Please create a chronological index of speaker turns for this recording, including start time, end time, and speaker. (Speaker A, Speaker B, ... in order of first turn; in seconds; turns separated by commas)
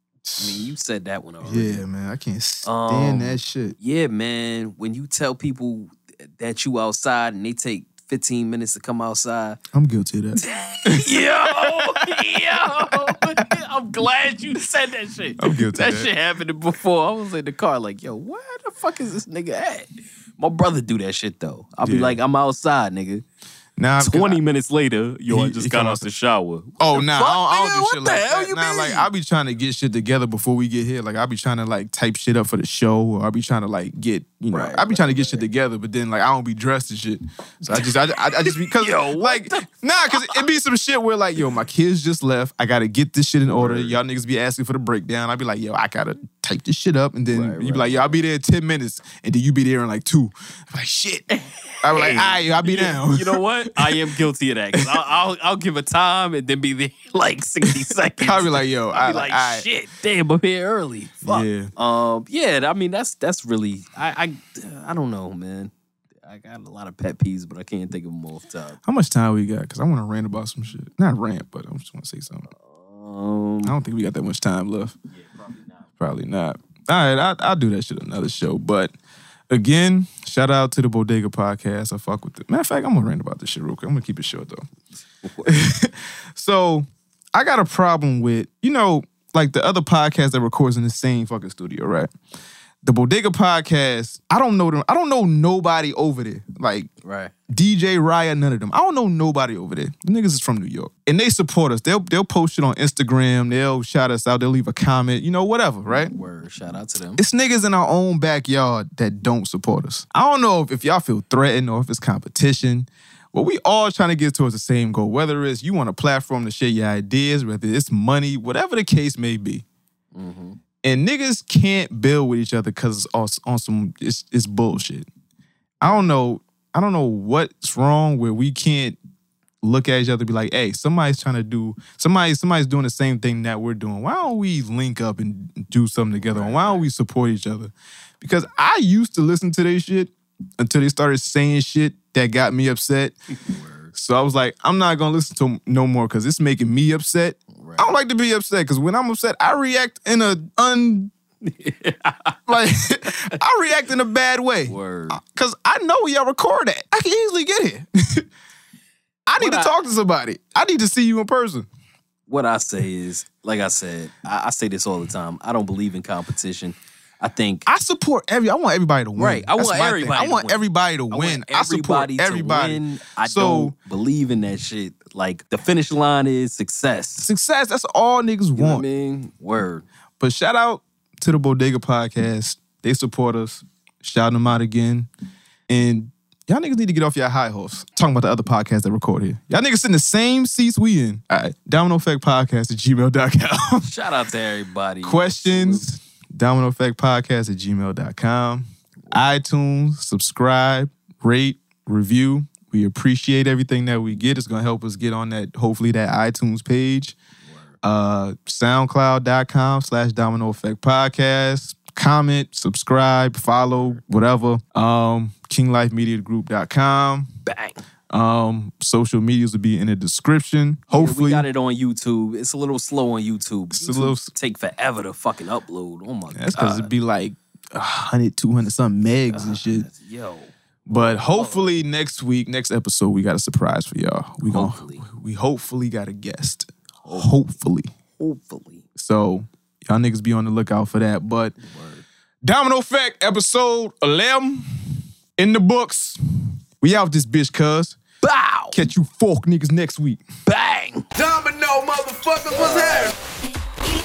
Speaker A: 0.2-0.7, Speaker B: 0.4-1.8, Speaker A: 1.4-3.8, Speaker B: 2.6-9.6, Speaker A: 9.7-12.1, Speaker B: 10.3-23.2, Speaker A: 15.4-16.1, Speaker A: 21.8-22.2, Speaker A: 23.8-24.4, Speaker B: 24.0-29.1, Speaker A: 25.3-26.1, Speaker A: 26.8-51.3, Speaker B: 34.5-35.5, Speaker B: 37.7-40.4, Speaker B: 43.5-44.0, Speaker B: 47.3-48.2, Speaker B: 51.3-65.7, Speaker A: 51.8-54.0, Speaker A: 57.6-59.6, Speaker A: 61.2-61.7, Speaker B: 66.2-68.8, Speaker A: 68.9-72.5, Speaker B: 72.5-73.8, Speaker A: 73.6-75.0, Speaker B: 75.1-75.9, Speaker A: 76.0-79.0, Speaker A: 79.5-84.6, Speaker B: 85.2-85.6, Speaker A: 85.5-92.1, Speaker A: 92.8-96.9, Speaker B: 97.0-97.3, Speaker A: 97.5-106.1, Speaker B: 105.9-107.2, Speaker A: 107.2-119.6, Speaker B: 120.1-120.6, Speaker A: 120.8-125.1, Speaker B: 125.8-126.1, Speaker A: 125.8-129.0, Speaker A: 129.6-143.2, Speaker B: 136.2-136.9, Speaker B: 143.3-143.9, Speaker A: 143.9-151.1, Speaker B: 147.5-147.9, Speaker B: 151.4-152.4, Speaker A: 152.5-158.3, Speaker B: 154.7-155.2, Speaker A: 159.3-161.7, Speaker B: 159.4-159.7, Speaker B: 162.3-167.7, Speaker A: 167.7-173.8, Speaker B: 169.2-177.3, Speaker A: 177.2-178.8, Speaker B: 178.6-179.8, Speaker A: 180.2-185.1, Speaker A: 185.7-193.9, Speaker B: 193.8-195.9, Speaker A: 195.0-207.2, Speaker B: 207.4-207.8, Speaker A: 207.8-217.3, Speaker B: 213.8-214.0, Speaker B: 217.5-217.8, Speaker A: 218.1-221.5, Speaker B: 220.9-226.9, Speaker A: 223.7-224.3, Speaker A: 226.3-229.9, Speaker B: 229.3-231.7, Speaker A: 230.9-237.9, Speaker B: 234.5-235.1, Speaker B: 237.0-237.3, Speaker B: 238.2-238.9, Speaker A: 239.0-241.6, Speaker B: 241.6-242.1, Speaker A: 242.4-244.7, Speaker A: 245.4-246.2, Speaker A: 246.8-248.0, Speaker B: 248.2-248.8, Speaker A: 248.7-250.2, Speaker B: 250.5-251.1, Speaker C: 251.2-253.1